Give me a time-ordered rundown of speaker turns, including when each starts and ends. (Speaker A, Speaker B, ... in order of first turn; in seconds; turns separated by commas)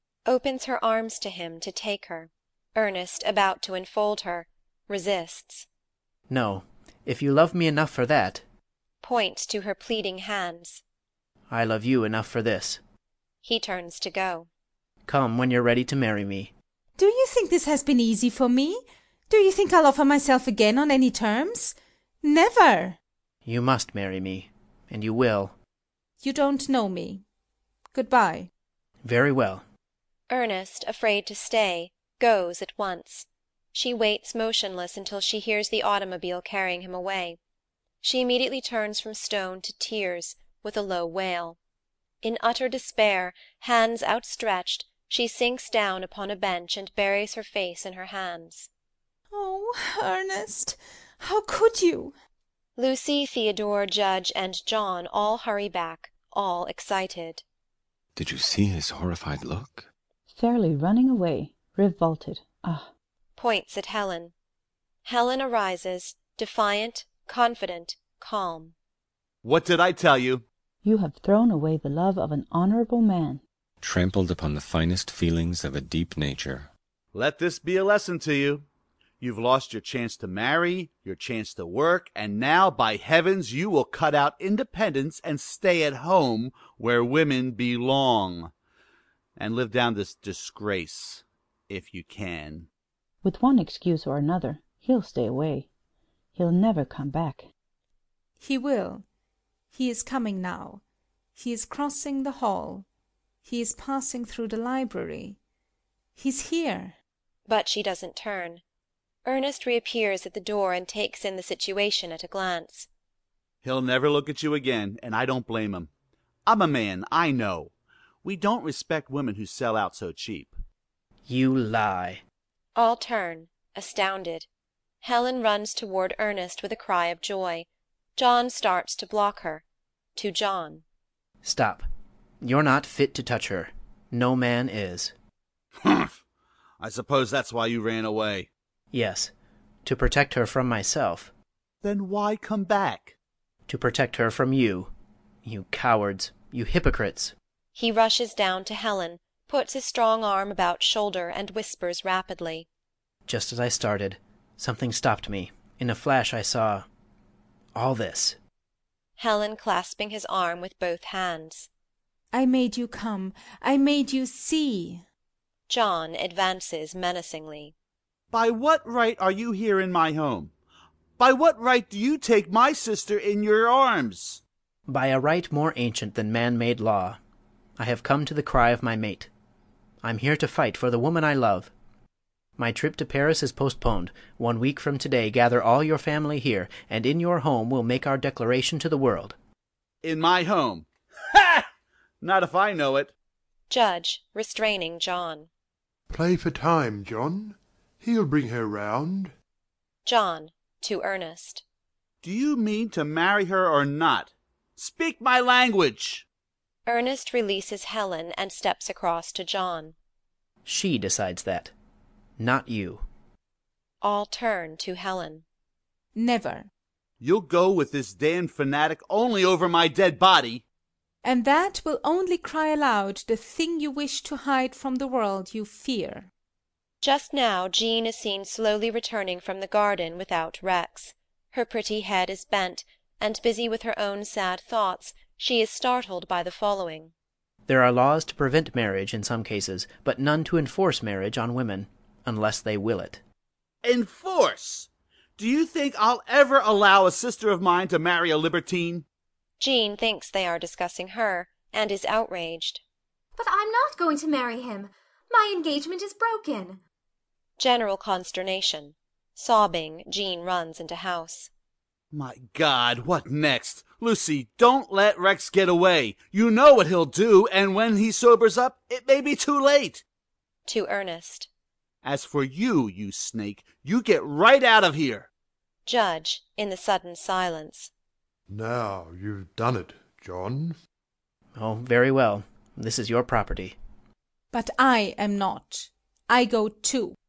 Speaker A: 0.3-5.7, Speaker B: 6.3-8.4, Speaker A: 9.0-10.8, Speaker B: 11.5-12.8, Speaker A: 13.4-14.5, Speaker B: 15.1-16.5, Speaker C: 17.0-23.0, Speaker B: 23.4-25.6, Speaker C: 26.2-27.2, Speaker C: 27.9-28.5, Speaker B: 29.0-29.6, Speaker A: 30.3-37.4, Speaker A: 38.0-41.6, Speaker A: 42.2-48.7, Speaker C: 49.3-52.1, Speaker A: 52.8-57.4, Speaker D: 58.2-59.9, Speaker E: 60.3-62.9, Speaker A: 63.4-64.3, Speaker A: 65.0-68.7, Speaker F: 69.4-70.4, Speaker E: 70.8-73.4, Speaker D: 73.8-76.7, Speaker F: 77.1-78.7, Speaker F: 79.2-88.5, Speaker F: 89.4-92.7, Speaker E: 93.2-95.7, Speaker E: 96.4-97.5, Speaker C: 98.4-99.0, Speaker C: 99.7-100.8, Speaker C: 101.3-102.9, Speaker C: 103.4-105.4, Speaker C: 106.2-107.0, Speaker A: 107.5-108.6, Speaker A: 109.2-112.9, Speaker F: 113.6-115.9, Speaker F: 116.5-117.7, Speaker F: 118.2-120.6, Speaker B: 121.3-122.2, Speaker A: 122.8-124.5, Speaker A: 125.0-127.7, Speaker A: 128.2-129.6, Speaker A: 130.2-130.8, Speaker B: 131.4-131.9, Speaker B: 132.4-135.1, Speaker F: 135.8-136.1, Speaker F: 136.8-138.5, Speaker B: 138.9-139.3, Speaker B: 139.8-141.3, Speaker F: 141.8-143.2, Speaker B: 143.7-144.9, Speaker B: 145.4-147.3, Speaker A: 147.8-152.7, Speaker B: 153.3-156.9, Speaker B: 157.8-158.4, Speaker A: 159.2-161.7, Speaker C: 162.3-165.0, Speaker A: 165.7-167.7, Speaker F: 168.3-170.5, Speaker F: 171.2-174.4, Speaker B: 174.9-177.2, Speaker B: 177.8-179.3, Speaker B: 180.0-181.7, Speaker B: 182.6-189.4, Speaker F: 190.0-191.7, Speaker F: 192.2-193.1, Speaker A: 193.7-195.5, Speaker G: 196.1-199.3, Speaker A: 200.1-201.6, Speaker F: 202.2-206.2, Speaker A: 206.9-209.9, Speaker B: 210.7-211.7, Speaker B: 212.4-213.1, Speaker A: 214.0-215.4, Speaker C: 216.2-216.7, Speaker F: 217.2-220.6, Speaker C: 221.2-226.3, Speaker A: 227.0-237.1, Speaker B: 237.7-243.2, Speaker F: 243.8-249.0, Speaker A: 249.6-252.8, Speaker H: 253.4-256.8, Speaker A: 257.6-261.5, Speaker F: 262.1-270.0, Speaker A: 270.7-271.5, Speaker F: 272.0-275.3, Speaker A: 275.9-277.9, Speaker G: 278.5-280.8, Speaker B: 281.6-283.8, Speaker C: 284.5-287.2